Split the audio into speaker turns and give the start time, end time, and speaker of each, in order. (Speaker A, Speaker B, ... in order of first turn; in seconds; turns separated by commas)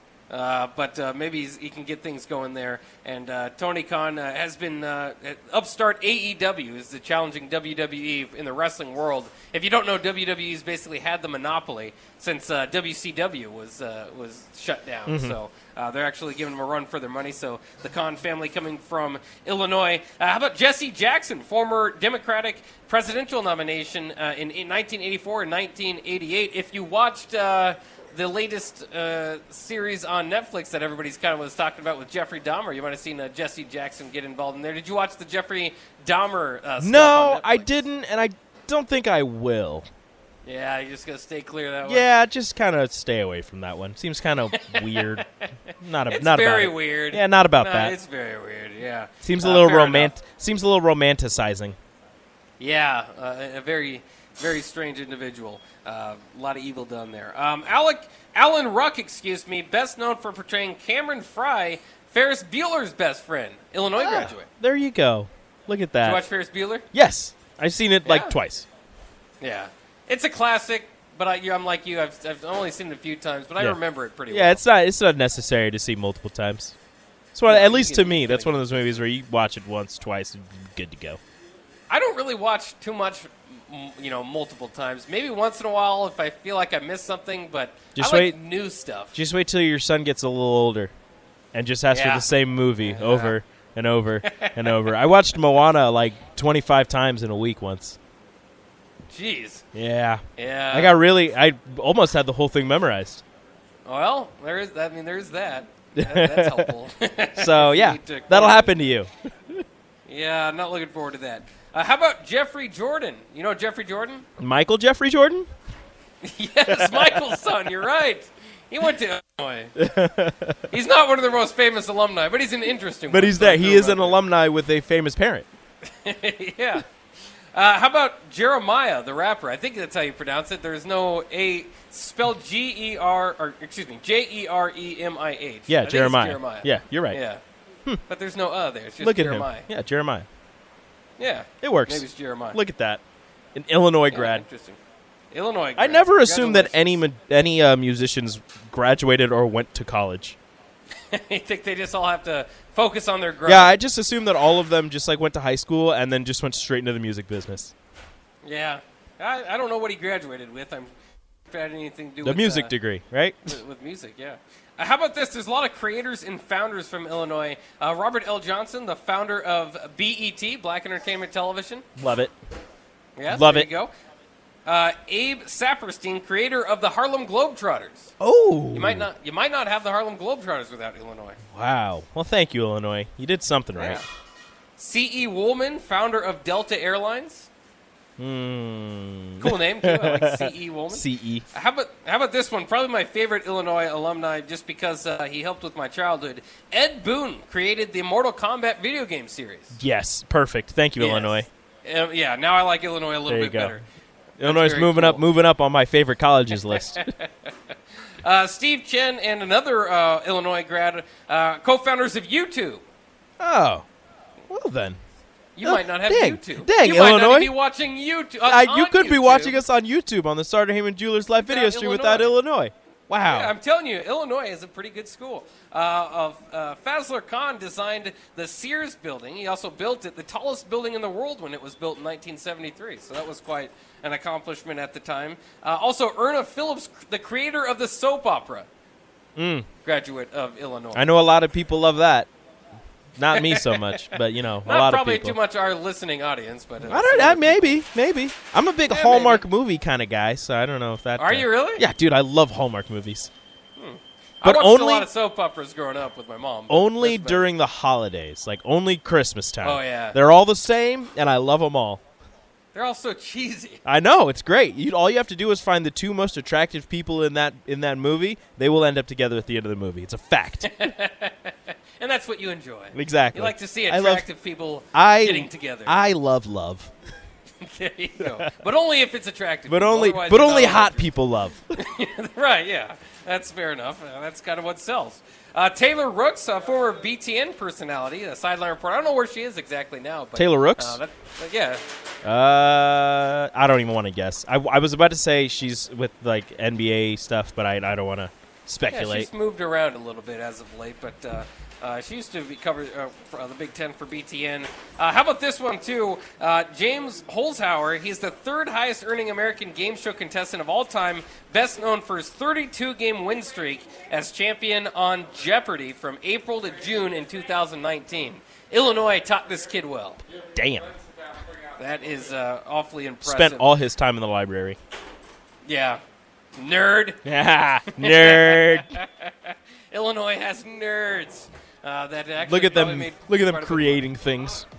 Speaker A: 0.3-37.8, Speaker B: 15.1-15.4, Speaker B: 36.8-39.9, Speaker A: 40.4-42.1, Speaker B: 41.9-48.0, Speaker A: 44.5-50.1, Speaker B: 49.2-51.8, Speaker A: 52.6-64.5, Speaker B: 64.0-66.2, Speaker A: 66.0-66.9, Speaker B: 66.9-68.7, Speaker A: 68.0-68.4, Speaker A: 69.4-74.6, Speaker B: 73.6-76.7, Speaker B: 77.3-81.2, Speaker A: 77.5-79.0, Speaker A: 81.9-89.2, Speaker B: 88.0-88.4, Speaker B: 89.1-90.9, Speaker B: 91.5-98.0, Speaker A: 91.9-93.4, Speaker A: 94.2-94.9, Speaker A: 99.1-99.6, Speaker B: 99.7-103.2, Speaker A: 100.4-101.0, Speaker A: 103.8-108.8, Speaker B: 106.0-106.7, Speaker B: 107.3-109.6, Speaker A: 110.0-114.3, Speaker B: 114.4-115.5, Speaker A: 116.2-119.8, Speaker B: 116.7-117.5, Speaker B: 119.8-120.7, Speaker A: 120.7-124.2, Speaker B: 123.1-125.5, Speaker A: 125.8-126.8, Speaker A: 127.5-137.4, Speaker B: 135.7-137.2, Speaker A: 138.1-139.7, Speaker B: 139.0-140.2, Speaker A: 141.2-142.6, Speaker B: 141.6-143.0, Speaker B: 143.5-144.4, Speaker A: 144.1-144.8, Speaker A: 145.3-147.0, Speaker B: 145.8-150.4, Speaker A: 151.1-153.8, Speaker B: 153.4-157.7, Speaker A: 158.4-160.9, Speaker A: 161.5-162.7, Speaker B: 162.2-163.6, Speaker A: 163.4-171.8, Speaker B: 172.0-172.3, Speaker A: 173.2-173.9, Speaker B: 173.2-173.7, Speaker A: 174.7-178.1, Speaker B: 178.2-179.1, Speaker A: 178.7-181.4, Speaker B: 181.5-184.0, Speaker A: 183.8-184.0, Speaker A: 184.8-187.5, Speaker B: 188.2-191.4, Speaker A: 189.4-199.8, Speaker B: 199.7-201.5, Speaker A: 201.0-203.8, Speaker B: 203.3-203.8, Speaker B: 204.4-207.1, Speaker A: 204.4-205.2, Speaker A: 206.6-212.8, Speaker B: 213.4-213.8, Speaker B: 214.5-215.0, Speaker A: 215.6-219.6, Speaker B: 215.6-217.5, Speaker B: 218.4-223.5, Speaker A: 221.4-222.3, Speaker A: 223.2-238.7, Speaker B: 239.3-239.7, Speaker A: 239.8-241.1, Speaker B: 240.9-242.3, Speaker B: 243.2-245.4, Speaker A: 243.3-247.8, Speaker B: 246.8-253.3, Speaker A: 248.9-249.4, Speaker A: 251.2-251.9, Speaker A: 253.8-257.5, Speaker B: 254.4-255.1, Speaker B: 256.7-262.0, Speaker A: 259.6-260.2, Speaker A: 262.7-263.8, Speaker B: 263.8-270.7, Speaker A: 270.6-276.0, Speaker B: 272.9-274.2, Speaker B: 274.9-276.9, Speaker A: 277.6-281.1, Speaker B: 279.7-281.8, Speaker A: 281.7-291.8, Speaker B: 290.4-291.0, Speaker B: 292.2-299.3, Speaker A: 298.9-320.2, Speaker B: 320.5-320.9, Speaker A: 321.8-323.7, Speaker B: 323.2-324.8, Speaker A: 325.6-326.0, Speaker A: 326.6-327.3, Speaker B: 327.2-329.0, Speaker A: 327.8-334.1, Speaker B: 332.4-334.7